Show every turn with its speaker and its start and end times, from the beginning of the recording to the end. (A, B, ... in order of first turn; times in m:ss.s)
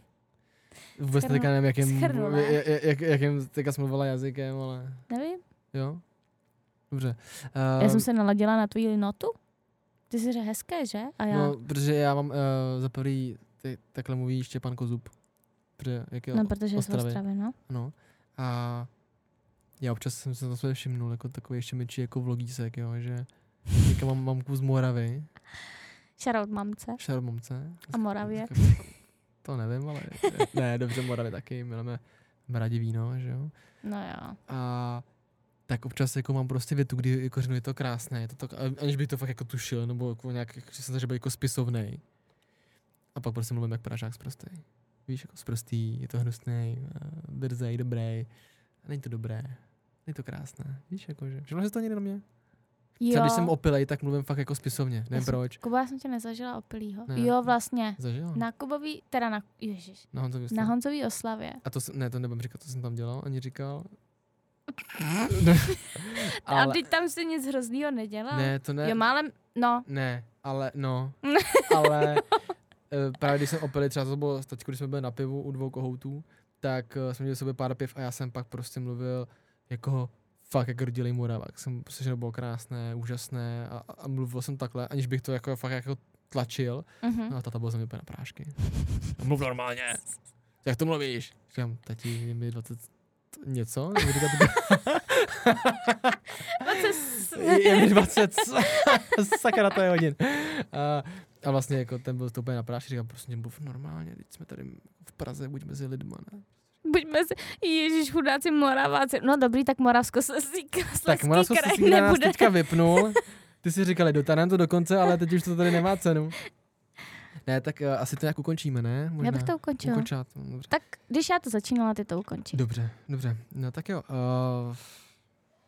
0:01.0-0:08.1 A
0:01.2-0:02.6 B
0:05.1-0:05.4 B
0:07.8-0:11.6 B
0:11.3-0:19.2 A
0:16.3-0:17.6 B
0:19.8-0:25.3 A
0:26.2-0:28.9 B
0:27.0-0:33.9 A
0:33.8-0:34.4 B
0:34.5-0:42.2 A
0:43.1-0:52.4 A
0:52.9-0:55.6 A
0:53.0-0:53.5 B
0:55.1-1:01.6 B
0:57.1-0:58.5 A
1:00.1-1:04.0 A
1:05.3-1:06.9 A
1:06.4-1:09.9 B
1:08.3-1:09.2 A
1:09.8-1:46.6 A
1:11.4-1:12.0 B
1:27.0-1:27.4 B
1:36.6-1:37.9 B
1:46.8-1:53.0 B
1:51.0-1:56.6 A
1:57.4-2:00.7 A
1:59.2-2:02.6 B
2:02.5-2:05.2 A